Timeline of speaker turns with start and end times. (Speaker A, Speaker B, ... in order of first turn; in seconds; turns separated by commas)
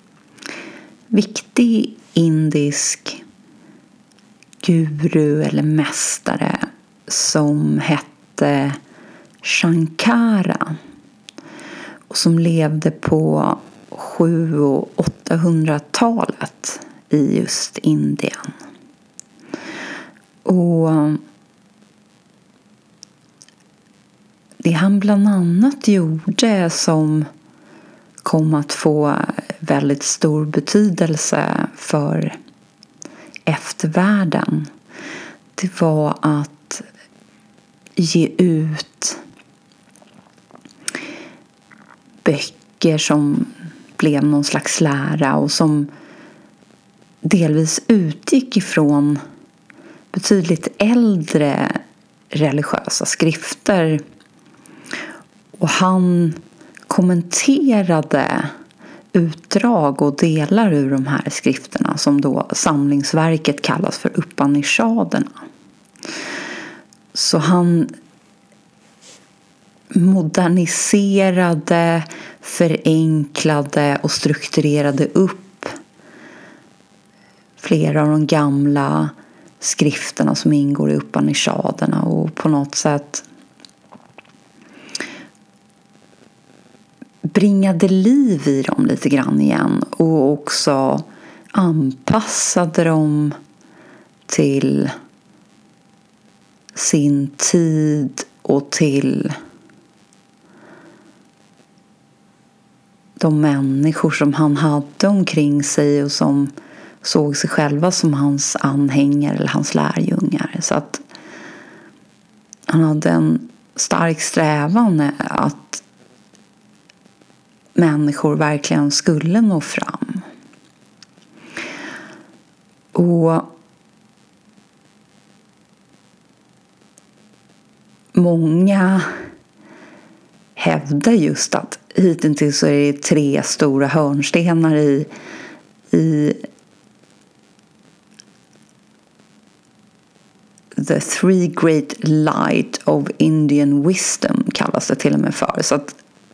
Speaker A: 1.1-3.2, Speaker A: 4.6-8.8, Speaker A: 9.4-10.8, Speaker A: 12.1-18.5, Speaker A: 20.4-21.2, Speaker A: 24.6-27.3, Speaker A: 28.2-32.4, Speaker A: 33.5-34.7, Speaker A: 35.6-36.9, Speaker A: 38.0-39.2, Speaker A: 42.2-45.9, Speaker A: 47.2-49.2, Speaker A: 50.1-51.8, Speaker A: 52.3-54.0, Speaker A: 55.6-58.5, Speaker A: 59.1-65.3, Speaker A: 67.1-67.9, Speaker A: 69.9-75.8, Speaker A: 77.6-83.2, Speaker A: 87.3-93.4, Speaker A: 94.3-94.9, Speaker A: 96.8-99.4, Speaker A: 103.2-106.5, Speaker A: 107.0-111.0, Speaker A: 112.7-115.8, Speaker A: 117.8-120.2, Speaker A: 123.0-123.5, Speaker A: 128.2-129.1, Speaker A: 130.6-135.1, Speaker A: 135.9-136.5, Speaker A: 140.8-145.9